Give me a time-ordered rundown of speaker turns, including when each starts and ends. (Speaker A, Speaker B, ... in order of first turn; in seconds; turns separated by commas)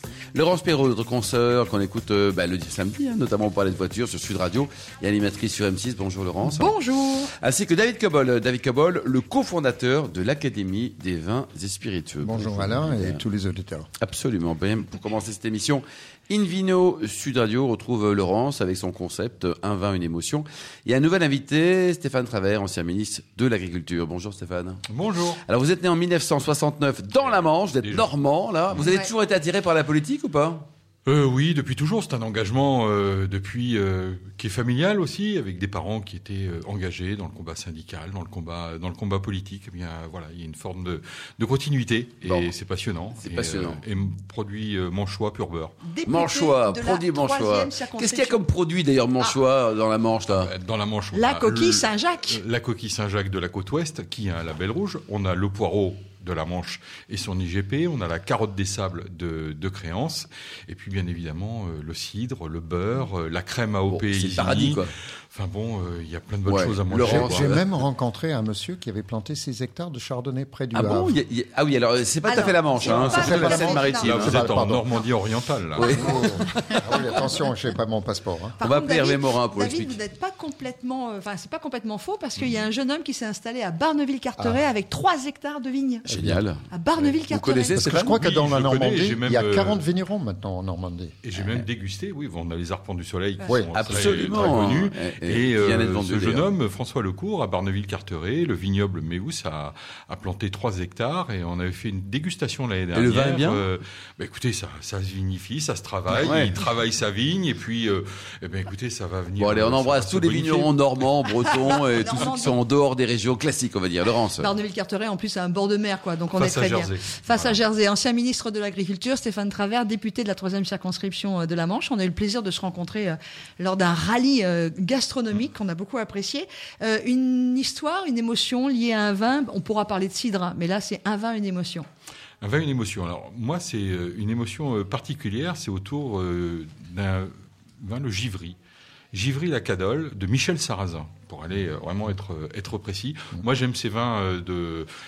Speaker A: 0.3-13.2, Speaker B: 6.5-7.3, Speaker C: 12.2-13.9, Speaker A: 14.0-24.8, Speaker D: 24.9-25.4, Speaker A: 25.5-30.7, Speaker D: 27.2-28.1, Speaker D: 31.1-45.8, Speaker A: 42.2-42.5, Speaker A: 43.2-43.8, Speaker B: 45.8-48.5, Speaker A: 46.0-50.5, Speaker D: 50.4-67.6, Speaker B: 51.1-52.4, Speaker A: 63.9-64.9, Speaker A: 66.5-67.7, Speaker C: 67.0-71.2, Speaker A: 70.7-74.4, Speaker B: 72.2-74.1, Speaker D: 72.8-76.0, Speaker C: 73.1-74.9, Speaker A: 75.8-77.2, Speaker C: 75.9-78.6, Speaker B: 78.6-87.8, Speaker A: 78.6-80.0, Speaker C: 84.4-84.7, Speaker C: 86.1-86.4, Speaker A: 86.1-88.1, Speaker C: 87.7-91.2, Speaker D: 88.0-89.8, Speaker D: 91.2-110.8, Speaker A: 91.4-91.6, Speaker C: 93.4-93.7, Speaker A: 93.7-96.5, Speaker A: 102.9-103.7, Speaker A: 106.2-106.5, Speaker A: 109.4-114.5, Speaker B: 111.6-112.5, Speaker D: 112.0-112.3, Speaker B: 114.4-131.9, Speaker D: 116.3-117.6, Speaker D: 132.4-138.6, Speaker D: 139.1-144.9